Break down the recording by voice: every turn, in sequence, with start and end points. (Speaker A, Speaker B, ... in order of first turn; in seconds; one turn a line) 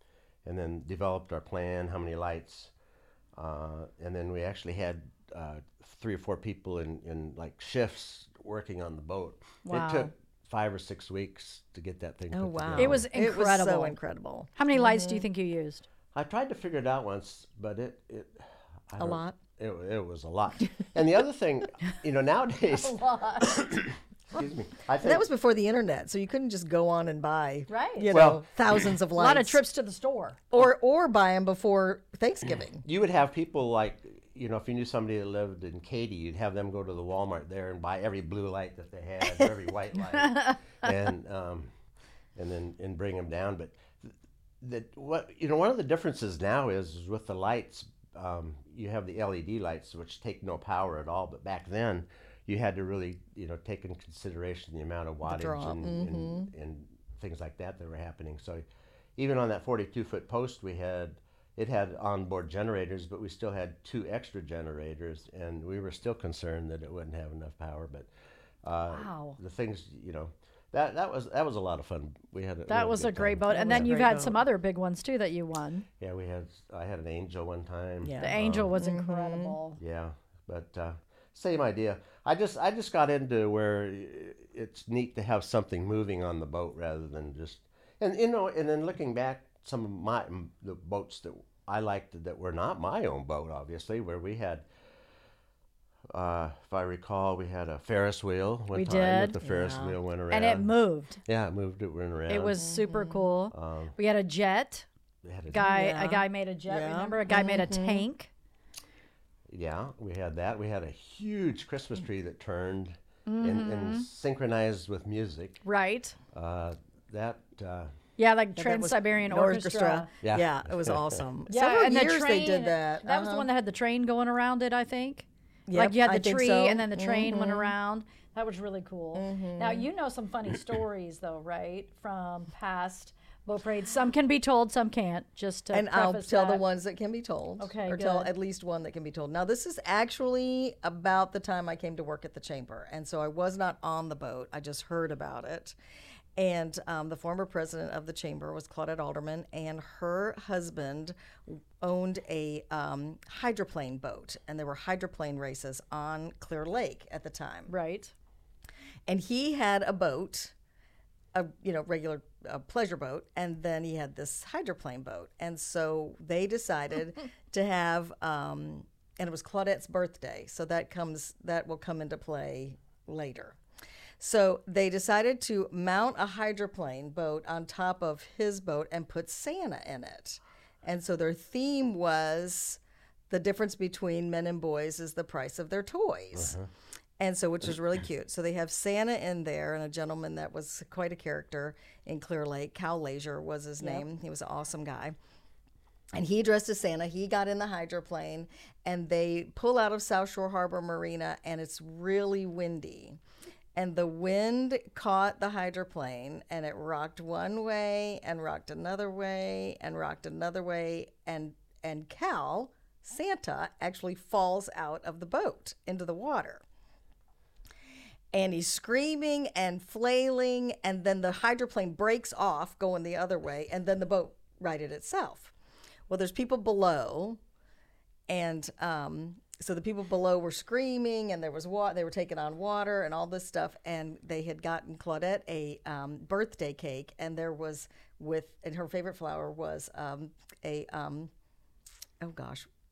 Speaker A: 0.4-2.7
Speaker A: 3.3-13.1
Speaker B: 9.6-10.1
Speaker C: 12.3-15.2
Speaker B: 12.8-13.9
Speaker B: 14.6-15.8
Speaker A: 16.1-25.2
Speaker C: 19.0-19.4
Speaker B: 22.8-23.5
Speaker C: 25.0-29.6
Speaker B: 27.7-28.1
Speaker A: 28.1-29.0
Speaker B: 29.1-30.4
Speaker C: 30.5-32.8
Speaker A: 32.8-41.7
Speaker A: 42.4-44.1
Speaker A: 44.6-58.6
Speaker C: 55.2-56.5
Speaker A: 59.2-68.1
Speaker A: 68.6-73.9
Speaker B: 68.9-69.4
Speaker B: 72.7-75.9
Speaker C: 73.5-74.4
Speaker A: 76.0-78.7
Speaker C: 78.0-79.5
Speaker B: 78.2-79.8
Speaker A: 79.8-94.7
Speaker A: 96.1-100.7
Speaker B: 98.7-99.4
Speaker C: 99.4-100.0
Speaker B: 100.3-101.2
Speaker A: 101.2-102.6
Speaker B: 102.3-104.9
Speaker C: 102.6-103.2
Speaker A: 103.5-103.9
Speaker A: 105.2-105.7
Speaker B: 105.5-108.3
Speaker C: 105.6-108.0
Speaker A: 109.5-115.6
Speaker B: 113.2-114.0
Speaker B: 115.6-116.2
Speaker A: 116.3-117.9
Speaker B: 118.2-120.1
Speaker C: 118.5-123.5
Speaker A: 120.2-121.0
Speaker B: 121.5-136.6
Speaker C: 125.7-127.7
Speaker C: 129.1-129.9
Speaker C: 135.7-145.8
Speaker B: 137.6-138.3
Speaker C: 146.3-157.7
Speaker B: 157.7-158.1
Speaker C: 159.1-160.5
Speaker C: 161.3-173.6
Speaker C: 174.2-186.5
Speaker A: 186.3-186.7
Speaker C: 187.2-195.2
Speaker C: 196.1-203.2
Speaker C: 203.7-216.6
Speaker C: 218.3-225.5
Speaker C: 226.1-227.4
Speaker C: 228.3-241.3
Speaker C: 242.2-242.7